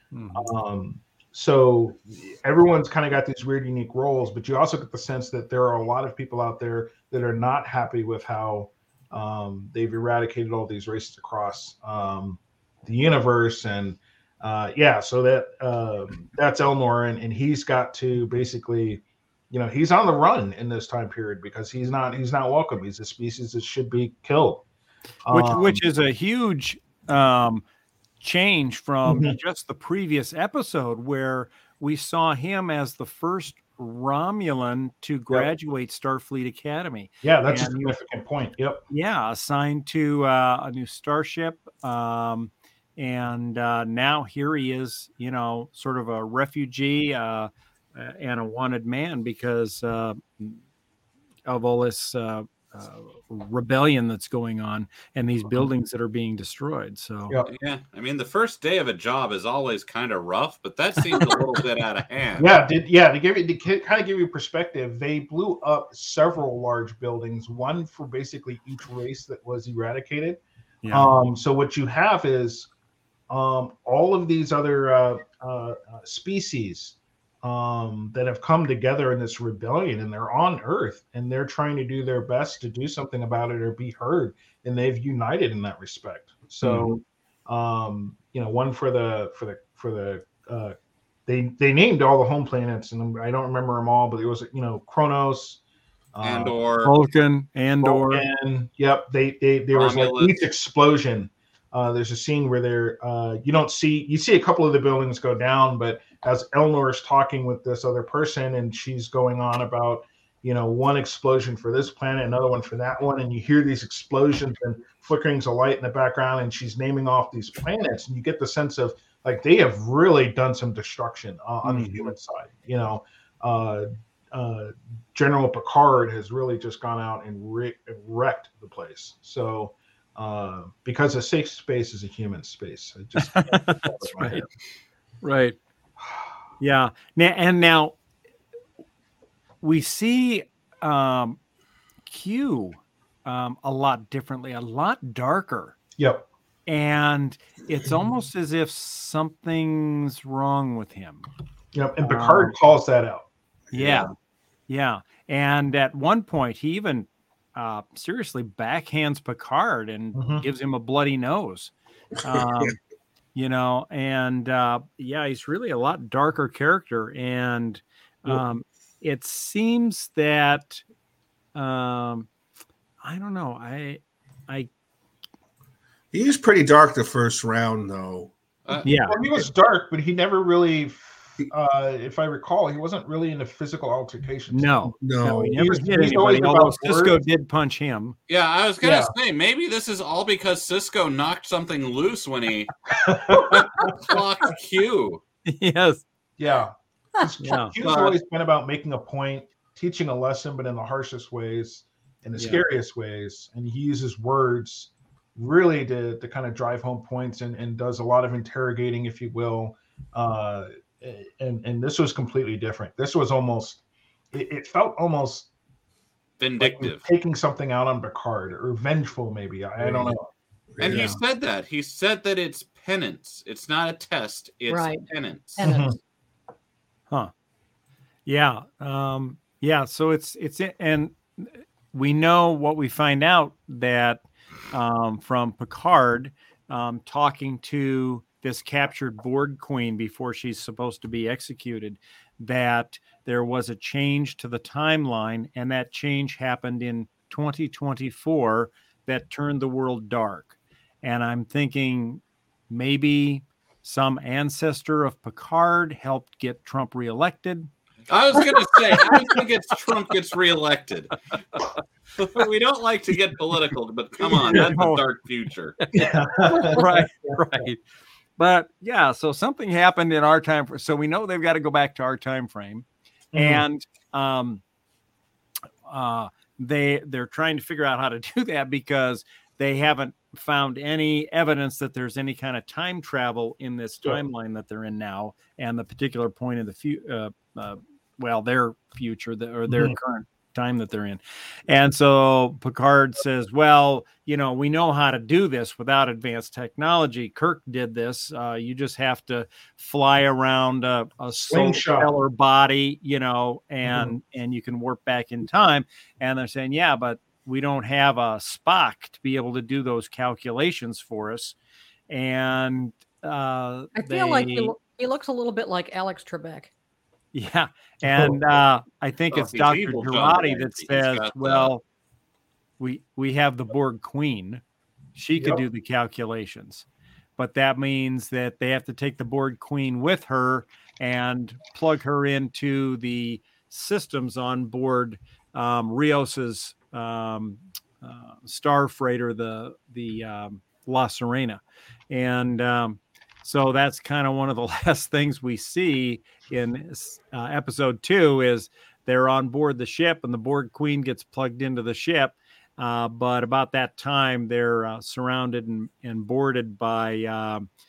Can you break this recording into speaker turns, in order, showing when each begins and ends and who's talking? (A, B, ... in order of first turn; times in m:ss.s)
0:00.1-0:00.5 A
0:00.3-0:24.6 B
0:25.2-0:25.8 B
0:25.3-0:27.6 A
0:28.2-0:37.9 A
0:29.0-0:29.3 B
0:37.2-0:38.8 B
0:38.9-0:50.6 A
0:51.4-0:57.3 A
0:57.4-1:02.5 C
1:02.4-1:12.7 B
1:10.8-1:11.1 A
1:13.3-1:30.7 B
1:31.3-1:35.6 B
1:36.1-1:36.5 B
1:36.2-1:36.9 C
1:36.8-1:38.2 A
1:37.8-2:14.5 B
1:39.7-1:40.4 C
2:01.6-2:02.1 A
2:13.2-2:14.5 A
2:15.2-2:15.6 A
2:16.0-2:16.3 B
2:16.6-2:18.0 A
2:19.6-2:21.4 A
2:22.1-2:25.8 A
2:26.0-2:26.3 B
2:26.7-2:31.2 A
2:31.7-2:33.3 B
2:32.0-2:32.5 A
2:33.7-2:34.1 D
2:33.7-2:34.1 A
2:34.7-2:42.8 A
2:40.1-2:40.4 B
2:42.2-2:42.7 D
2:43.3-2:50.8 A
2:51.5-2:52.3 A
2:53.0-2:54.7 A
2:56.1-2:58.3 D
2:58.8-2:59.2 A
2:59.0-3:07.2 B
3:04.5-3:08.2 A
3:05.0-3:05.8 D
3:08.3-3:15.2 C
3:08.8-3:09.1 B
3:12.9-3:14.1 B
3:15.4-3:16.0 A
3:16.4-3:33.8 B
3:17.4-3:17.7 A
3:17.8-3:18.2 C
3:22.4-3:22.6 A
3:34.3-3:35.5 B
3:36.4-3:37.1 C
3:36.6-3:40.2 B
3:39.8-3:40.1 D
3:40.7-3:41.1 D
3:40.8-3:45.6 C
3:40.9-3:41.2 A
3:44.7-3:46.0 E
3:45.6-3:46.0 B
3:48.2-4:17.7 A
4:18.1-4:21.2 C
4:22.2-4:25.8 C
4:24.3-4:24.6 B
4:24.3-4:25.0 A
4:25.8-4:27.8 A
4:25.9-4:27.6 B
4:28.4-4:34.6 A
4:33.3-4:33.6 B
4:35.9-5:11.5 A
4:49.7-4:50.0 B
5:01.3-5:02.1 B
5:03.8-5:04.1 B
5:12.1-5:14.7 A
5:13.9-5:16.7 E
5:17.3-5:21.8 A
5:18.0-5:18.4 B
5:19.3-5:21.7 C
5:22.8-5:24.6 A
5:25.2-5:26.8 A
5:25.4-5:25.6 B
5:27.4-5:57.7 A